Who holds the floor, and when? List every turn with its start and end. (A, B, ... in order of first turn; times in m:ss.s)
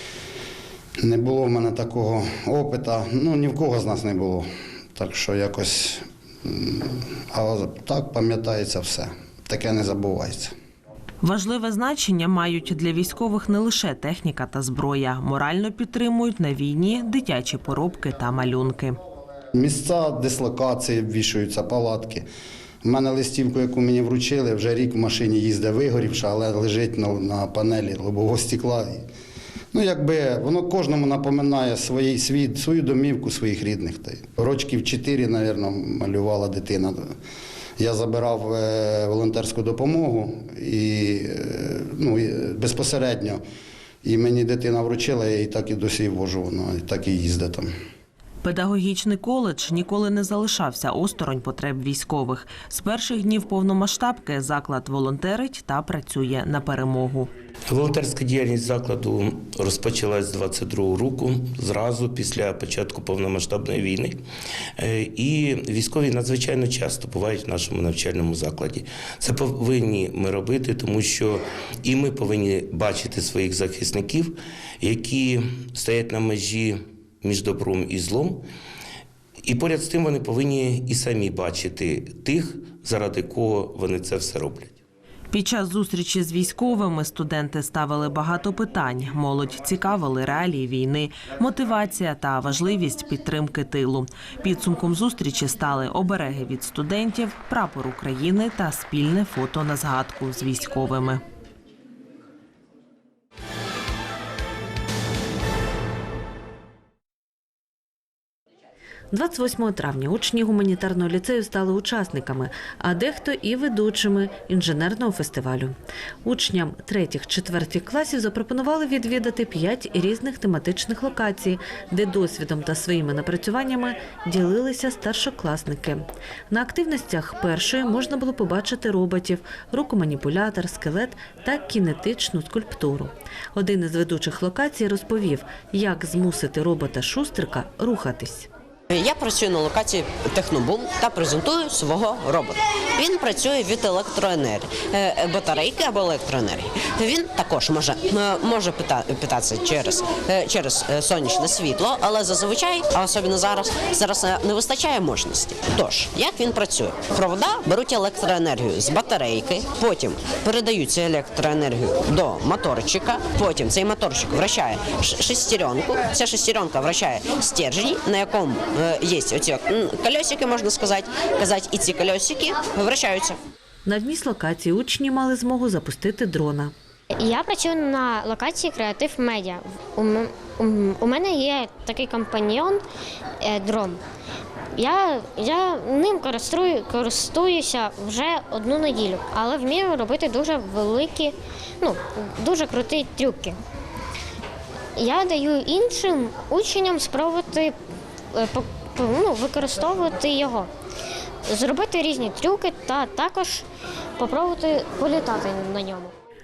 0:01.0-0:10.5 A
0:11.2-0:19.0 B
0:19.5-0:22.2 A
0:22.8-0:29.1 A
0:29.7-0:37.1 A
0:37.8-0:43.4 A
0:44.0-0:47.7 A
0:48.4-0:57.3 B
0:57.7-1:04.2 C
1:04.8-1:18.4 C
1:19.4-1:24.7 C
1:25.3-1:41.2 B
1:49.1-2:18.5 D
2:18.9-2:53.4 E
2:53.8-2:56.7 D
2:57.1-3:02.8 F
3:03.4-3:04.0 F
3:04.8-3:13.6 F
3:15.0-3:17.8 F
3:18.3-3:20.7 F
3:21.4-3:23.6 F
3:24.2-3:26.1 F